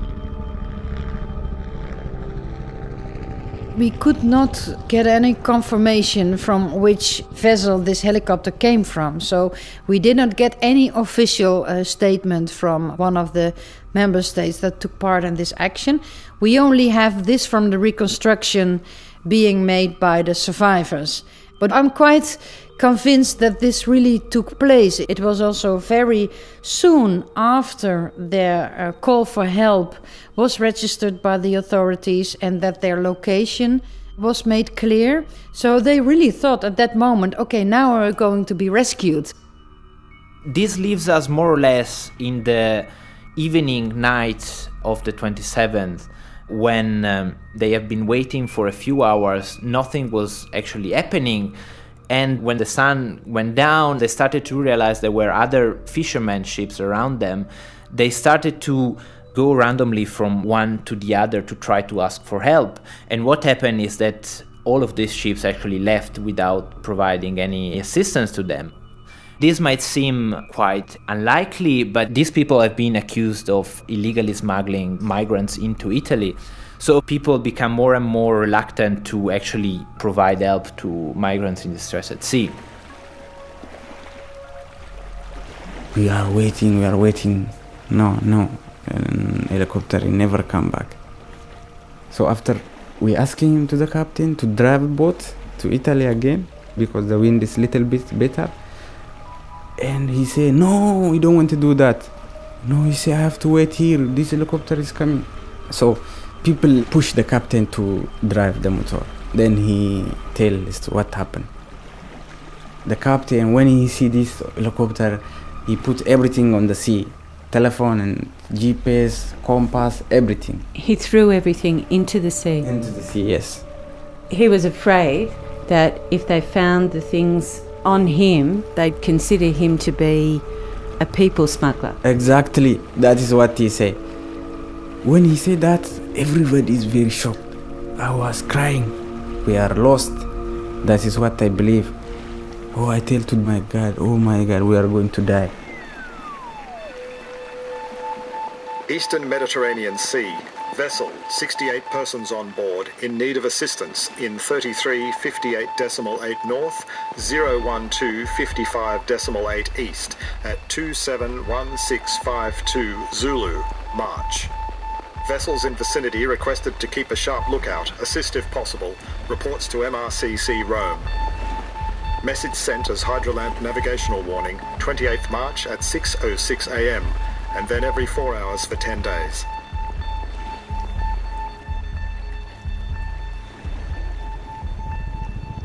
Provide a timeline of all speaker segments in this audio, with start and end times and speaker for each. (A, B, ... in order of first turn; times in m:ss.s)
0:03.7-0:39.3 A
0:40.5-0:51.5 B
0:52.1-1:08.7 B
1:09.4-1:22.6 B
1:25.9-1:31.0 C
1:32.1-1:38.6 C
1:39.8-1:51.5 C
1:52.8-2:00.6 C
2:00.7-2:02.7 D
2:02.6-2:03.6 C
2:04.3-2:10.4 D
2:11.0-2:12.0 D
2:12.0-2:14.0 C
2:15.0-2:20.3 C
2:20.8-2:21.9 C
2:22.7-2:25.5 C
2:28.9-2:44.5 E
2:45.2-2:51.1 E
2:52.2-2:59.4 E